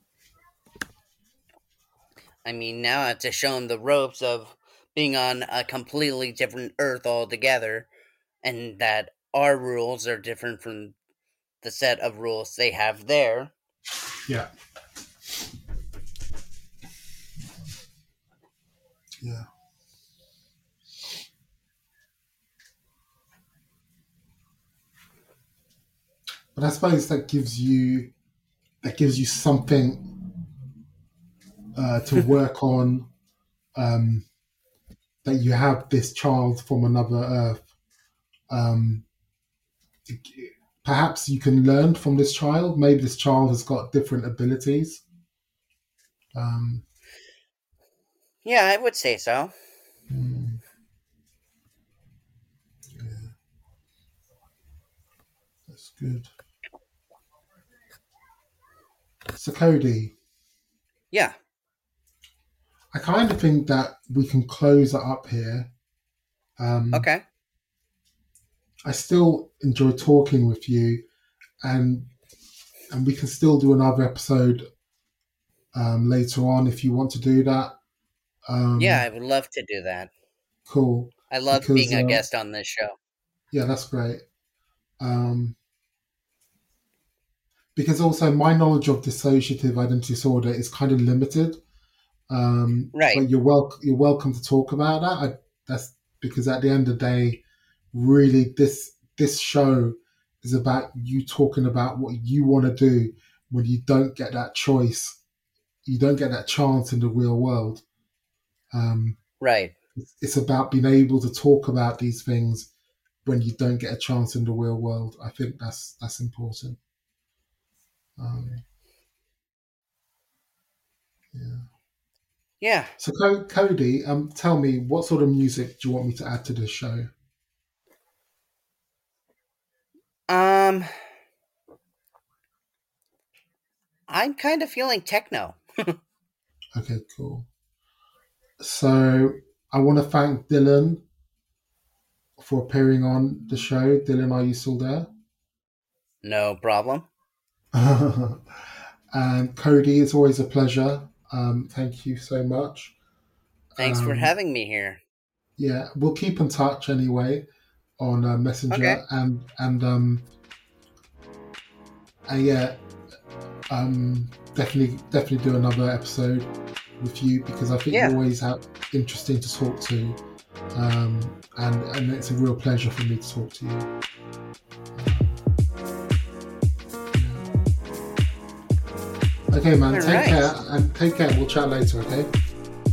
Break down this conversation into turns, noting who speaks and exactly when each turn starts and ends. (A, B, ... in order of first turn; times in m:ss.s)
0:02.4-0:07.9 A
0:08.4-0:11.0 A
0:11.6-0:13.5 A
0:19.2-0:19.5 B
0:26.6-0:28.1 B
0:28.8-0:30.1 B
0:31.8-0:33.1 B
0:33.8-0:34.3 B
0:35.2-0:37.7 B
0:38.5-0:39.1 B
0:40.1-0:45.0 B
0:46.3-0:46.9 B
0:48.4-0:49.5 A
0:50.1-0:50.6 B
0:52.9-0:53.4 B
0:55.7-0:56.3 B
0:59.4-1:00.2 B
1:02.9-1:05.7 B
1:06.6-1:07.1 B
1:06.9-1:07.2 A
1:08.8-1:11.0 B
1:11.6-1:12.1 B
1:12.9-1:14.7 B
1:15.7-1:17.8 B
1:18.5-1:19.1 B
1:18.8-1:20.1 A
1:20.7-1:22.2 B
1:21.3-1:23.0 A
1:23.5-1:24.2 B
1:25.0-1:25.6 B
1:27.8-1:31.6 B
1:32.3-1:45.2 B
1:32.9-1:33.2 A
1:45.9-1:47.8 B
1:48.7-1:49.2 B
1:49.4-1:49.7 A
1:50.0-1:52.7 B
1:53.2-1:56.8 B
1:58.2-1:58.6 B
2:01.3-2:01.7 B
2:02.6-2:02.9 A
2:03.0-2:07.1 B
2:10.3-2:10.9 A
2:14.1-2:15.9 A
2:16.8-2:17.5 B
2:18.6-2:21.0 B
2:22.4-2:25.1 B
2:26.2-2:27.1 A
2:27.7-2:33.0 B
2:33.8-2:34.3 B
2:33.8-2:35.0 A
2:35.6-2:37.5 B
2:38.0-2:40.3 B
2:38.7-2:39.0 A
2:42.3-2:42.8 B
2:43.7-2:50.2 B
2:47.9-2:48.2 A
2:50.7-2:53.9 B
2:54.9-2:55.4 B
2:57.2-2:57.5 B
2:59.5-3:02.3 B
2:59.9-3:00.5 A